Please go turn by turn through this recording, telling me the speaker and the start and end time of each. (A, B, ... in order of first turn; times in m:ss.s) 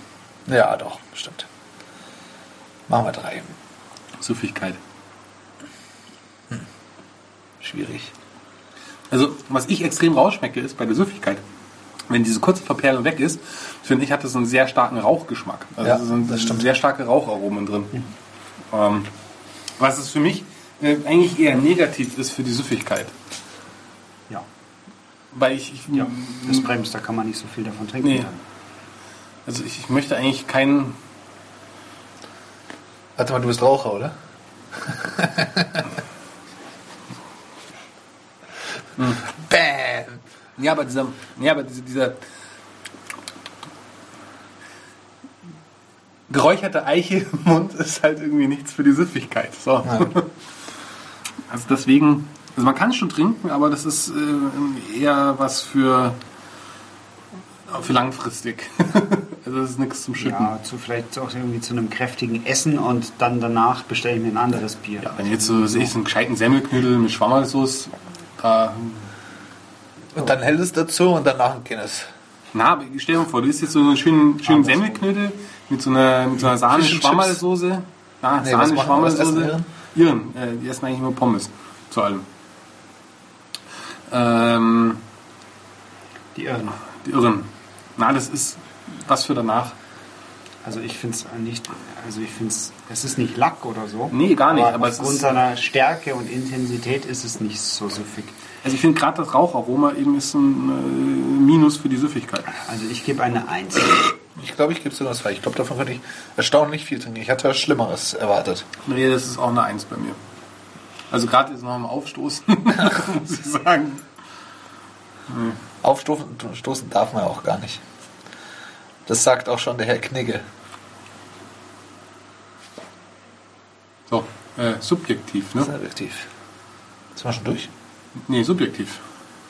0:00.5-0:01.5 A
0:02.9-0:03.5 A
0:04.2-0:04.8 B
0:07.6-0:08.1 A
0:09.1-0:11.4 B
0:12.1-0:18.0 B
0:15.8-0:16.7 A
0:18.7-0:19.1 B
0:19.8-0:23.1 B
0:25.3-0:26.8 B
0:25.9-0:28.4 C
0:29.5-0:31.0 B
0:33.2-0:34.1 A
0:34.8-0:35.9 A
0:39.0-0:39.3 B
0:39.4-0:40.2 A
0:40.6-0:42.2 B
0:46.3-0:50.3 B
0:49.8-0:50.1 A
0:51.5-0:56.2 B
0:57.7-1:00.5 B
1:00.2-1:06.0 C
1:05.0-1:09.1 B
1:10.1-1:12.1 A
1:12.5-1:22.2 B
1:14.6-1:14.9 C
1:16.5-1:17.4 A
1:18.4-1:19.7 A
1:24.1-1:25.0 B
1:26.4-1:26.8 C
1:27.0-1:29.8 B
1:30.6-1:38.4 C
1:34.1-1:35.3 B
1:38.6-1:42.6 B
1:42.5-1:44.1 C
1:44.4-1:48.7 A
1:48.8-1:50.2 B
1:51.1-1:54.0 B
1:55.3-1:55.6 B
1:55.8-1:57.8 A
1:59.1-2:00.4 A
2:04.1-2:05.7 B
2:05.6-2:06.3 A
2:07.2-2:07.7 A
2:08.3-2:09.0 B